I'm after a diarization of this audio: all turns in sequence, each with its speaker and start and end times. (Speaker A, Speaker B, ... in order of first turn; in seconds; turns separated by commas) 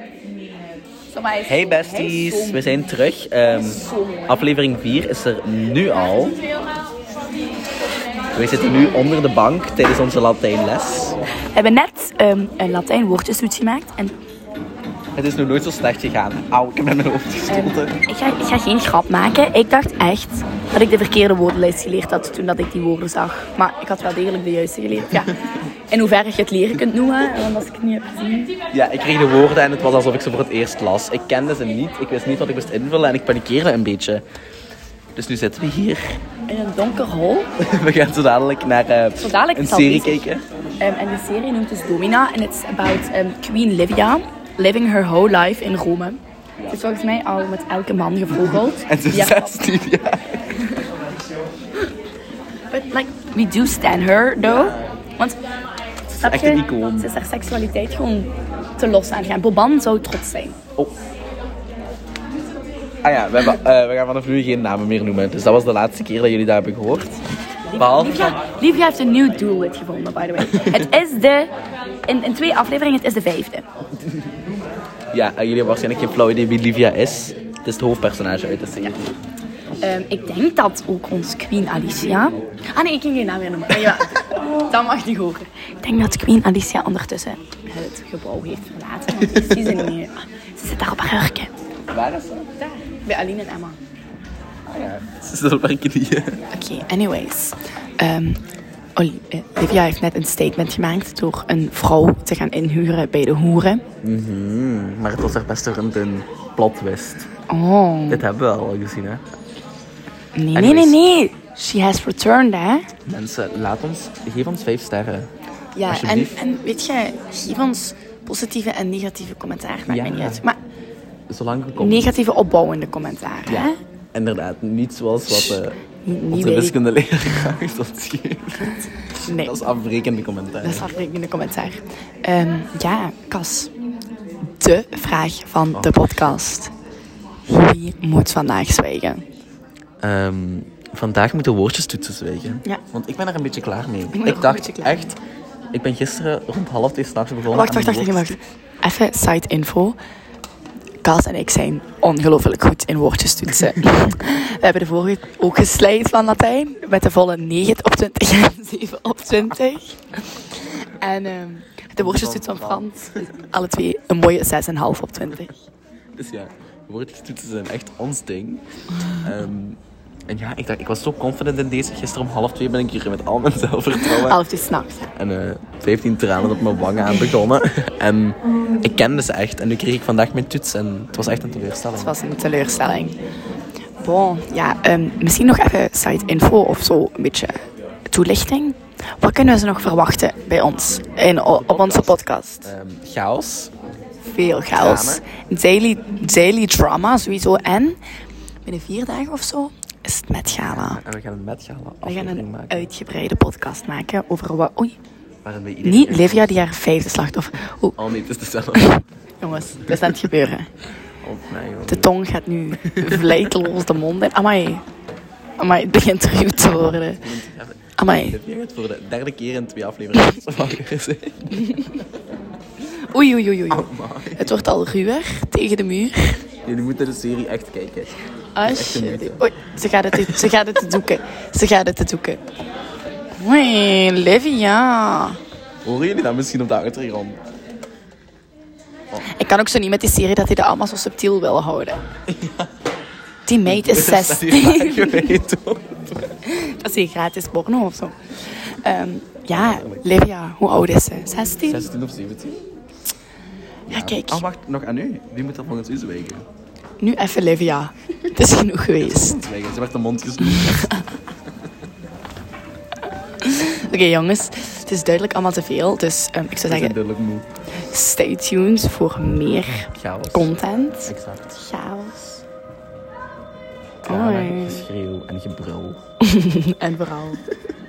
Speaker A: 0.4-2.8, Speaker B: 1.4-6.4, Speaker A: 3.5-4.4, Speaker B: 8.3-11.2, Speaker A: 11.5-14.1, Speaker B: 15.1-18.0, Speaker A: 17.5-28.5, Speaker B: 28.7-34.2, Speaker B: 35.1-36.2, Speaker A: 36.5-37.5, Speaker B: 37.6-40.4, Speaker A: 39.2-40.2, Speaker A: 40.8-49.6, Speaker B: 48.4-50.6, Speaker A: 50.5-50.8, Speaker A: 52.7-55.4, Speaker B: 54.4-54.8, Speaker B: 56.1-57.1, Speaker A: 56.2-60.6, Speaker B: 63.0-67.2, Speaker A: 67.7-71.5, Speaker B: 67.8-68.4, Speaker B: 70.4-70.9, Speaker A: 72.0-73.6, Speaker B: 75.1-79.1, Speaker A: 79.8-91.5, Speaker B: 89.2-89.9, Speaker B: 91.9-92.7, Speaker A: 92.8-93.8, Speaker B: 94.7-96.4, Speaker A: 96.5-98.4, Speaker A: 99.0-103.8, Speaker B: 104.0-107.3, Speaker A: 107.5-108.2, Speaker B: 108.1-109.2, Speaker A: 110.3-112.9, Speaker B: 110.5-111.0, Speaker B: 113.1-115.3, Speaker A: 115.7-120.6, Speaker B: 115.8-116.3, Speaker B: 119.9-120.4, Speaker B: 121.3-122.1, Speaker A: 121.8-123.8, Speaker B: 123.5-125.8, Speaker A: 125.3-126.8, Speaker B: 126.3-130.9, Speaker A: 128.7-129.6, Speaker A: 130.6-133.7, Speaker A: 134.6-136.7, Speaker B: 135.7-136.4, Speaker A: 137.5-139.2, Speaker B: 140.0-145.2, Speaker A: 144.1-145.1, Speaker B: 145.7-148.4, Speaker A: 147.5-150.0, Speaker A: 151.0-165.7, Speaker B: 162.0-163.3, Speaker B: 166.1-168.6, Speaker B: 169.2-174.4, Speaker A: 174.0-175.1, Speaker B: 175.1-182.1, Speaker A: 181.9-183.2, Speaker A: 184.0-192.7, Speaker B: 191.5-193.7, Speaker A: 194.3-198.0, Speaker B: 194.7-195.2, Speaker A: 198.6-201.0, Speaker B: 200.6-202.9, Speaker A: 202.0-204.9, Speaker B: 205.4-206.6, Speaker A: 205.8-208.0, Speaker B: 208.0-209.0, Speaker A: 208.8-210.7, Speaker B: 209.8-210.1, Speaker B: 211.2-212.1, Speaker A: 211.8-214.8, Speaker B: 212.8-213.6, Speaker A: 215.6-217.2, Speaker B: 217.2-222.0, Speaker A: 218.0-218.4, Speaker A: 221.5-221.9, Speaker A: 222.8-226.4, Speaker B: 223.7-224.7, Speaker B: 226.7-229.4, Speaker A: 228.5-232.4, Speaker B: 230.1-230.5, Speaker A: 233.3-235.4, Speaker B: 235.8-237.4, Speaker A: 239.2-242.0, Speaker B: 242.3-242.6, Speaker A: 243.4-245.4, Speaker B: 243.6-246.3, Speaker A: 246.4-251.8, Speaker B: 249.5-250.0, Speaker B: 251.6-252.7, Speaker B: 253.9-256.4, Speaker A: 253.9-254.4, Speaker A: 257.0-259.5, Speaker B: 259.0-261.0, Speaker A: 260.4-261.1, Speaker A: 263.4-266.9, Speaker B: 266.6-267.4, Speaker A: 267.9-272.4, Speaker B: 269.9-271.6, Speaker A: 274.0-274.8, Speaker B: 274.1-276.0, Speaker A: 276.2-277.4